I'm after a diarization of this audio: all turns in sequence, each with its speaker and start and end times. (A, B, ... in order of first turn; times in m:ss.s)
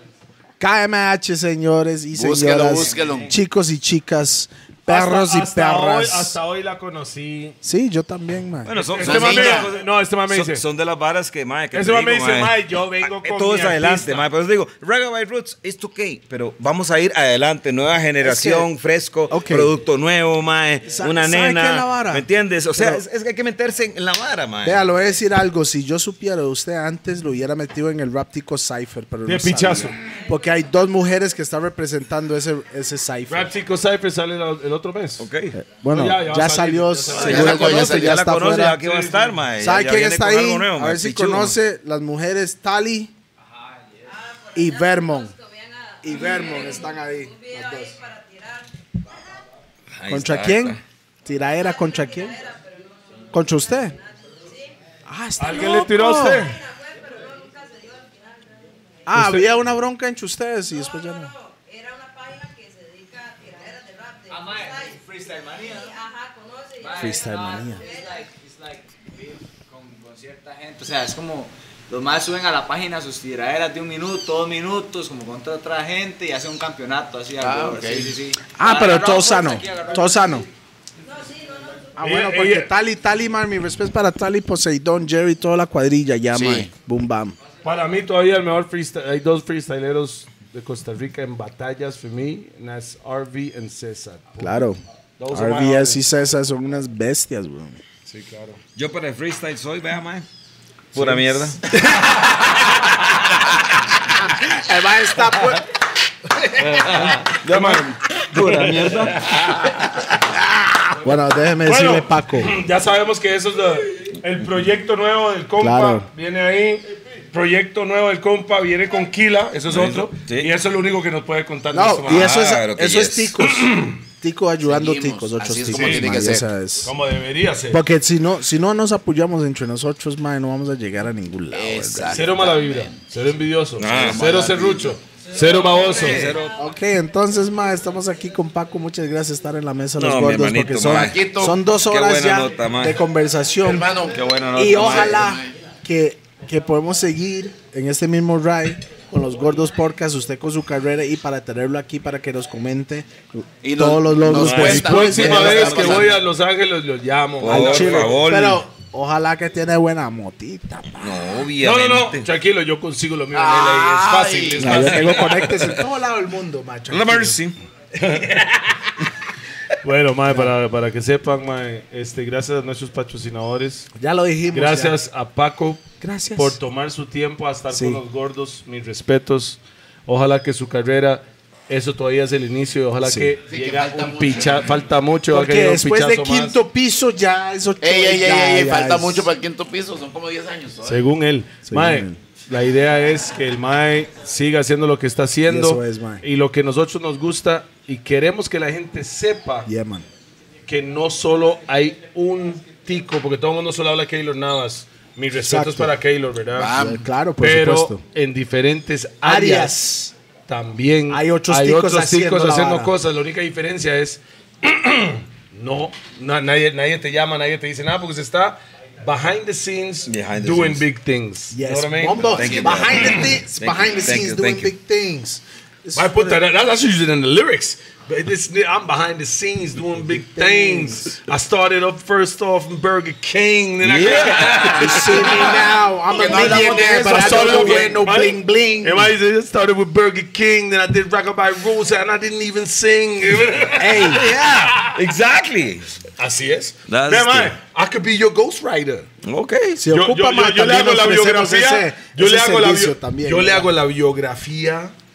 0:00.6-0:06.4 A
0:02.1-0:03.3 B
0:02.6-0:03.4 C
0:04.9-0:07.6 D
0:07.6-0:09.6 A
0:08.6-0:12.6 E
0:08.7-0:10.6 D
0:09.0-0:09.7 B
0:11.7-0:14.2 D
0:13.1-0:24.8 E
0:18.2-0:18.7 A
0:19.3-0:19.7 A
0:20.9-0:23.0 A
0:24.6-0:33.5 A
0:29.2-0:30.0 D
0:33.3-0:35.3 D
0:35.2-0:35.6 E
0:35.5-0:38.8 A
0:35.9-0:37.8 D
0:37.1-0:38.2 B
0:37.1-0:41.6 E
0:38.8-0:39.4 D
0:39.6-0:43.1 A
0:43.5-0:44.0 C
0:44.1-0:48.7 F
0:44.5-0:45.3 A
0:46.0-0:47.9 A
0:49.9-0:50.8 E
0:50.1-0:52.4 A
0:51.6-0:54.7 F
0:53.3-0:54.0 A
0:55.1-0:56.5 A
0:55.4-0:56.6 D
0:56.2-0:58.8 F
0:59.0-1:01.3 A
0:59.1-0:59.5 D
1:00.6-1:08.3 F
1:04.3-1:05.9 C
1:06.8-1:20.4 C
1:07.0-1:07.8 A
1:17.4-1:18.2 B
1:18.5-1:20.5 A
1:21.0-1:22.0 F
1:22.0-1:27.4 A
1:22.0-1:22.7 D
1:26.3-1:26.7 B
1:27.6-1:34.5 D
1:34.4-1:34.8 A
1:35.2-1:36.0 D
1:35.3-1:37.8 A
1:38.0-1:38.6 D
1:38.7-1:40.2 E
1:40.9-1:41.6 E
1:40.9-1:41.8 D
1:41.9-1:42.3 A
1:44.1-1:45.6 A
1:46.6-1:49.6 D
1:47.1-1:49.2 E
1:51.0-1:52.5 A
1:51.6-2:02.3 D
1:55.6-1:56.1 A
1:59.7-2:00.5 E
2:01.7-2:06.9 A
2:02.0-2:03.4 E
2:03.5-2:03.9 D
2:04.6-2:06.4 B
2:05.7-2:06.1 D
2:06.8-2:07.8 D
2:07.7-2:12.2 A
2:11.5-2:13.0 B
2:12.1-2:16.4 D
2:13.8-2:14.3 E
2:14.0-2:15.0 B
2:15.8-2:16.5 E
2:16.6-2:23.9 A
2:20.0-2:21.2 E
2:20.9-2:21.6 B
2:21.7-2:23.0 E
2:23.6-2:25.5 B
2:24.1-2:25.3 E
2:24.5-2:36.1 A
2:33.6-2:36.1 B
2:34.3-2:36.2 E
2:34.5-2:38.2 D
2:37.4-2:38.6 E
2:37.4-2:41.2 A
2:41.0-2:42.3 E
2:41.6-2:45.8 D
2:43.3-2:45.2 B
2:44.6-2:47.4 A
2:46.9-2:47.6 E
2:48.0-2:48.8 D
2:49.8-2:53.9 D
2:54.0-2:55.0 A
2:54.5-3:06.6 D
2:56.0-2:56.6 A
2:57.7-2:58.0 A
3:03.0-3:03.4 A
3:03.5-3:04.8 B
3:05.3-3:09.3 A
3:07.8-3:11.0 B
3:10.8-3:19.7 D
3:11.7-3:12.2 A
3:15.5-3:16.2 A
3:19.7-3:20.0 A
3:20.7-3:26.7 D
3:25.4-3:25.9 A
3:26.5-3:27.1 B
3:26.7-3:28.0 A
3:27.4-3:29.8 D
3:29.2-3:30.1 A
3:30.5-3:42.4 D
3:31.1-3:32.9 A
3:40.1-3:40.8 E
3:41.5-3:46.4 A
3:42.3-3:42.9 B
3:42.3-3:44.7 E
3:42.9-3:43.3 D
3:46.0-4:05.0 D
3:49.9-3:51.1 A
3:53.8-3:55.1 E
3:54.6-3:59.1 A
3:56.1-3:58.0 B
4:03.8-4:04.2 A
4:04.1-4:06.0 E
4:06.2-4:09.1 D
4:06.9-4:07.6 E
4:09.2-4:09.8 E
4:09.8-4:13.7 A
4:09.9-4:14.9 D